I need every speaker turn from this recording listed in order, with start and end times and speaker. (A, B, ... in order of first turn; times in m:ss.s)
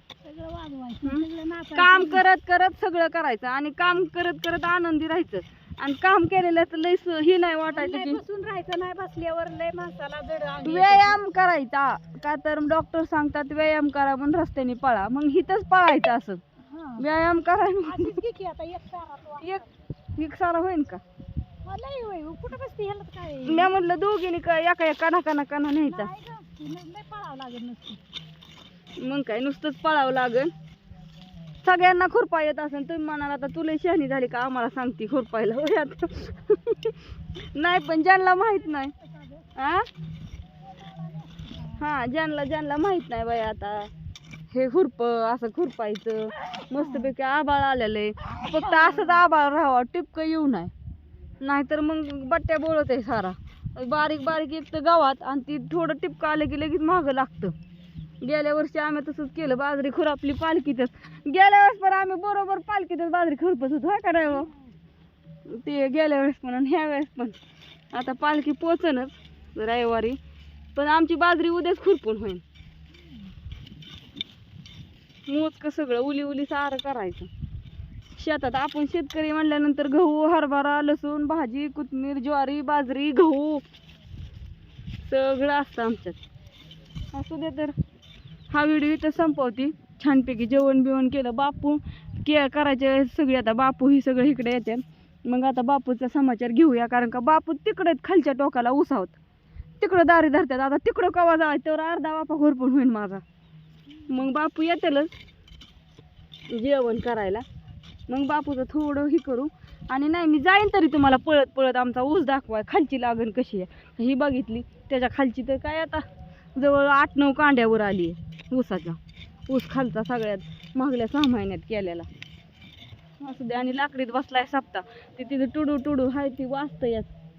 0:00.2-0:02.2 A
0:01.0-0:08.2 B
0:07.7-0:11.2 A
0:10.6-0:16.4 B
0:16.7-0:17.0 A
0:17.0-0:18.2 B
0:17.8-0:19.7 A
0:20.2-0:21.0 B
0:21.6-0:23.7 A
0:23.4-0:26.1 B
0:25.8-0:28.0 A
0:29.0-0:30.5 B
0:31.6-0:37.0 B
0:37.5-0:38.9 B
0:38.4-0:39.6 A
0:39.6-0:39.9 B
0:40.6-0:41.8 A
0:41.8-0:43.9 B
0:44.5-0:50.7 B
0:46.7-0:47.1 A
0:48.3-0:49.2 A
0:51.4-0:57.5 B
0:58.2-1:04.5 B
1:05.5-1:07.4 B
1:07.9-1:10.2 B
1:10.8-1:12.4 B
1:12.9-1:13.3 A
1:15.3-1:17.3 B
1:18.2-1:23.6 B
1:25.0-1:26.2 B
1:27.1-1:27.7 B
1:28.5-1:39.2 B
1:39.8-1:43.2 B
1:43.9-1:44.3 A
1:44.1-1:45.1 B
1:46.5-1:47.4 B
1:48.1-1:56.0 B
1:56.6-2:02.1 B
2:03.2-2:07.1 B